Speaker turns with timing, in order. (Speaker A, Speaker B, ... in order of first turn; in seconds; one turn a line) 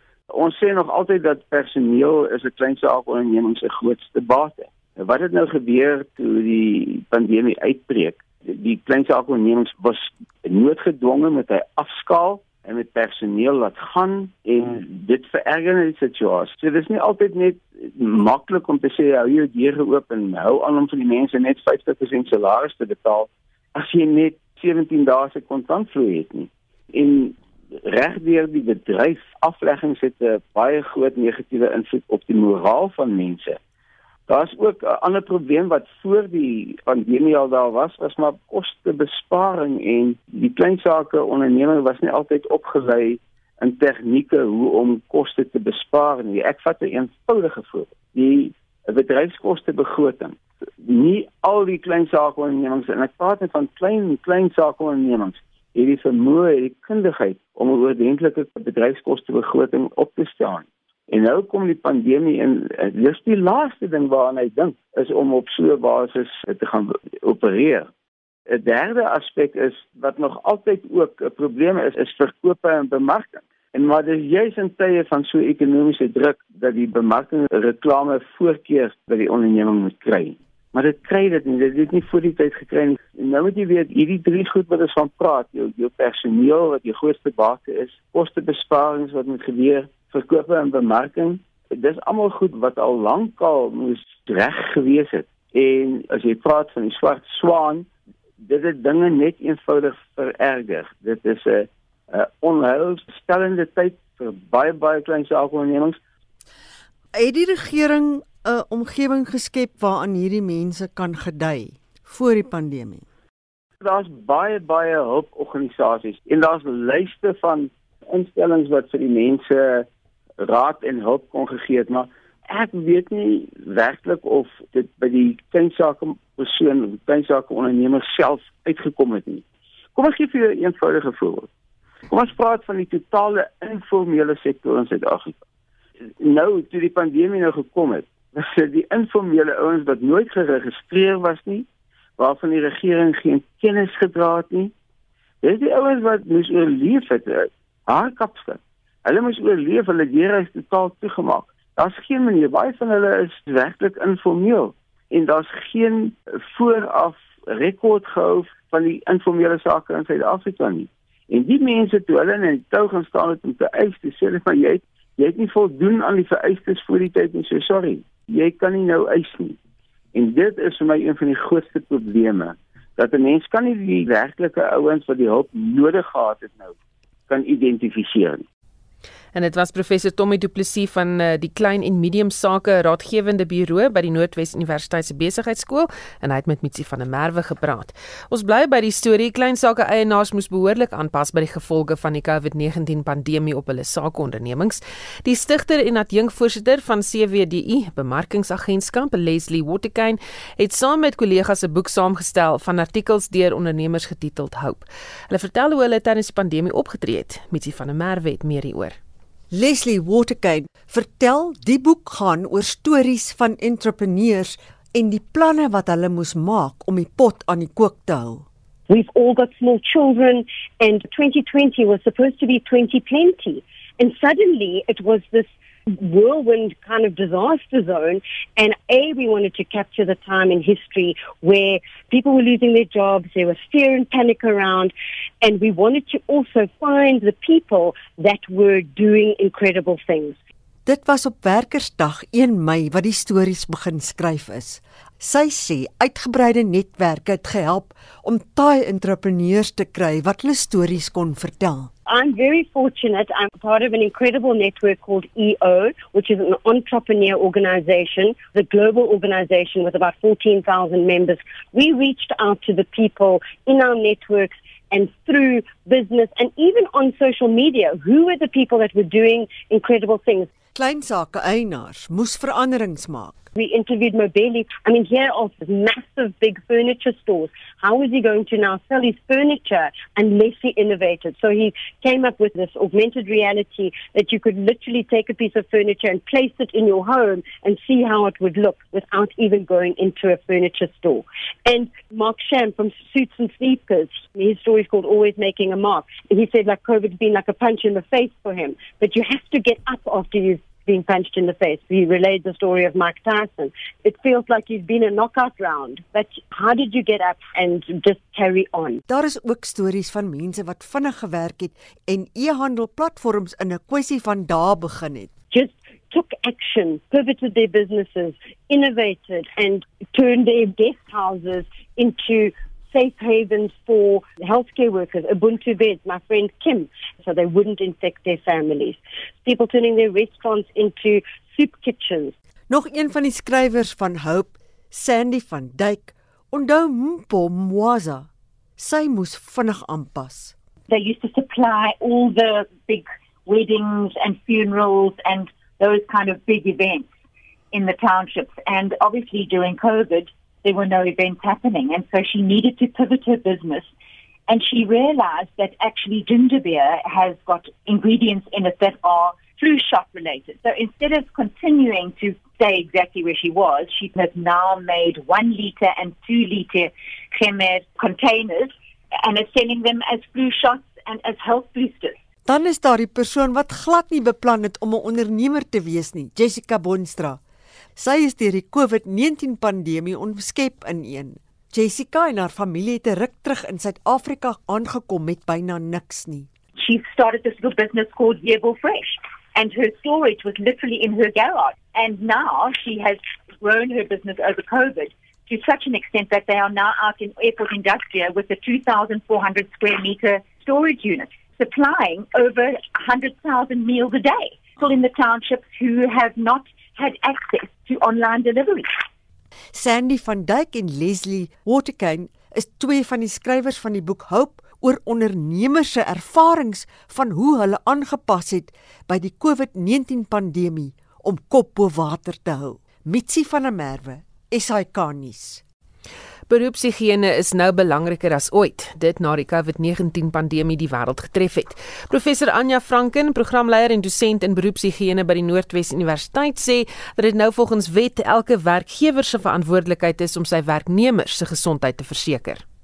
Speaker A: 0.3-33.6
Speaker A: 34.3-67.9
Speaker A: 68.5-97.9
Speaker A: 98.4-106.0
Speaker B: 107.1-113.0
Speaker A: 113.8-119.9
Speaker A: 120.4-129.4
Speaker A: 129.9-131.5
Speaker A: 132.1-135.4
Speaker A: 136.2-141.7
Speaker A: 142.2-144.7
Speaker A: 145.4-169.6
Speaker A: 170.1-176.7
Speaker A: 177.3-178.4
Speaker C: 179.3-209.0
Speaker B: 209.5-218.4
Speaker D: 218.9-240.4
Speaker B: 240.8-251.9
Speaker D: 252.1-270.5
Speaker B: 270.7-273.5
Speaker D: 273.5-309.0
Speaker B: 309.1-315.3
Speaker D: 315.5-332.3
Speaker B: 332.7-340.5
Speaker E: 340.9-347.1
Speaker E: 347.7-353.9
Speaker E: 354.5-372.2
Speaker B: 372.4-377.4
Speaker B: 377.9-386.5
Speaker E: 386.8-408.9
Speaker B: 409.7-425.6
Speaker C: 426.5-442.6